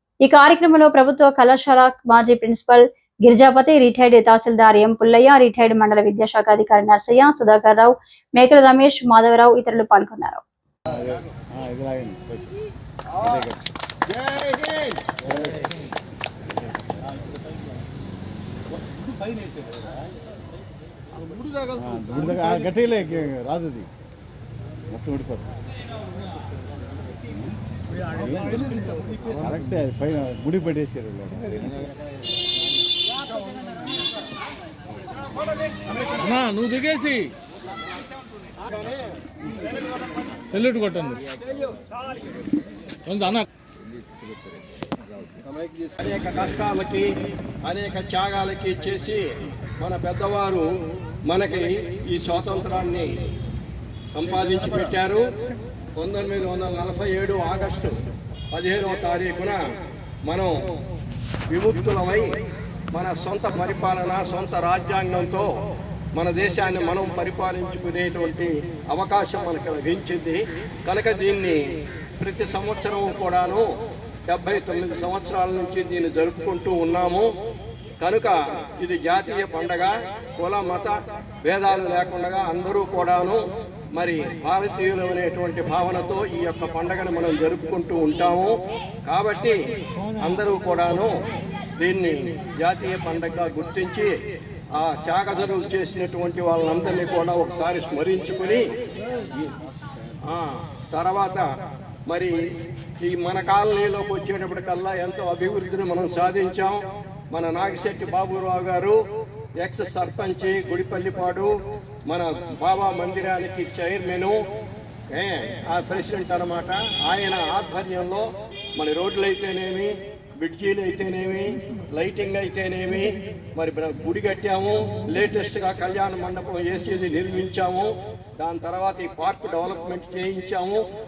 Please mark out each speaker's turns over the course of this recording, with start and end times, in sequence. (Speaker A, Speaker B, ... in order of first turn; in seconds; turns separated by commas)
Speaker A: 0.2-10.4, Speaker B: 10.9-12.5, Speaker B: 13.1-13.6, Speaker B: 15.2-15.7, Speaker B: 21.6-23.9, Speaker B: 24.9-25.5, Speaker B: 27.4-31.9, Speaker C: 36.2-37.3, Speaker D: 38.6-39.2, Speaker C: 40.5-41.2, Speaker C: 43.1-43.5, Speaker D: 45.4-47.1, Speaker D: 47.6-50.7, Speaker D: 51.3-53.1, Speaker D: 54.1-55.2, Speaker D: 56.0-58.0, Speaker D: 58.5-59.6, Speaker D: 60.2-60.5, Speaker D: 61.5-62.3, Speaker D: 62.9-65.5, Speaker D: 66.2-71.6, Speaker D: 72.2-73.6, Speaker D: 74.3-77.3, Speaker D: 78.0-83.4, Speaker D: 83.9-88.5, Speaker D: 89.0-89.5, Speaker D: 90.2-91.1, Speaker D: 91.8-94.1, Speaker D: 94.7-98.7, Speaker D: 100.2-101.5, Speaker D: 102.1-102.3, Speaker D: 103.0-106.8, Speaker D: 107.3-109.0, Speaker D: 109.6-111.5, Speaker D: 112.1-114.4, Speaker D: 115.1-130.8